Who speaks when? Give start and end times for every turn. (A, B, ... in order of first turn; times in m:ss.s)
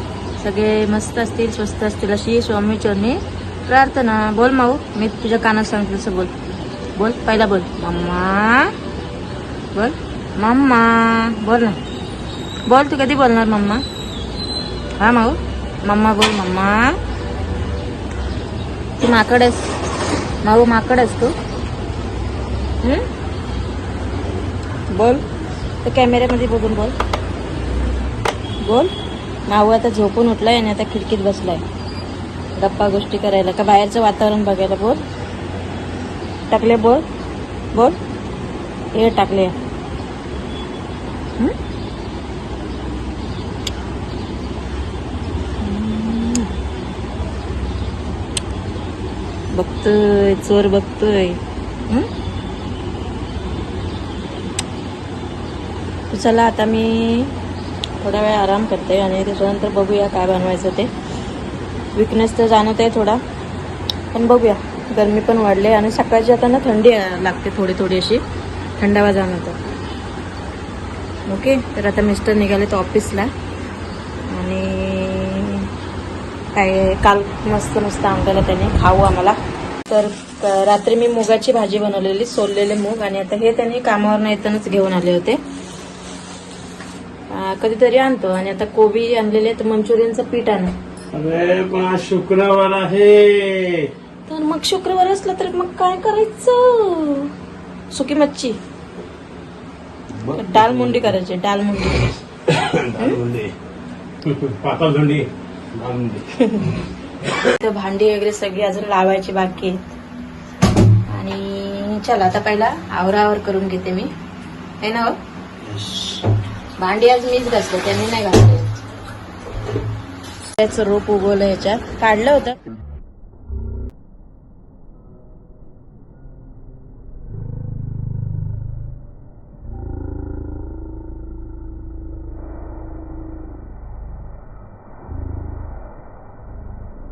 0:00.4-0:06.4 A
0:07.0-0:08.8 A
0:09.7-0:11.8 A
0:12.7-0:13.8 A
0:15.0-0:17.0 A
0:19.0-0:19.7 A
0:20.4-0:21.4 A
0:22.8-0:23.1 A
0:24.9-0:25.3 A
0:25.8-0:27.0 A
0:28.6-0:28.9 A
0:29.5-0:31.7 A
0:32.6-0:35.0 A
0:36.5-0:37.1 A
0:37.7-0:38.0 A
0:38.9-0:39.6 A
0:45.6-0:46.5 A
0:49.5-0:52.1 A
0:56.1-0:57.4 A
0:58.0-1:00.9 A
1:02.0-1:03.2 A
1:04.1-1:08.2 A
1:08.8-1:09.6 A
1:11.3-1:13.3 A
1:14.2-1:15.7 A
1:16.5-1:25.4 A
1:27.3-1:30.8 A
1:31.1-1:33.9 B
1:34.3-1:37.3 A
1:37.9-1:38.6 A
1:40.3-1:42.1 A
1:42.5-1:43.6 B
1:43.0-1:43.2 A
1:44.2-1:46.4 B
1:46.4-1:46.8 A
1:47.4-1:50.0 A
1:51.0-1:54.1 A
1:54.8-1:55.2 A
1:56.8-1:58.8 A
2:00.6-2:02.6 A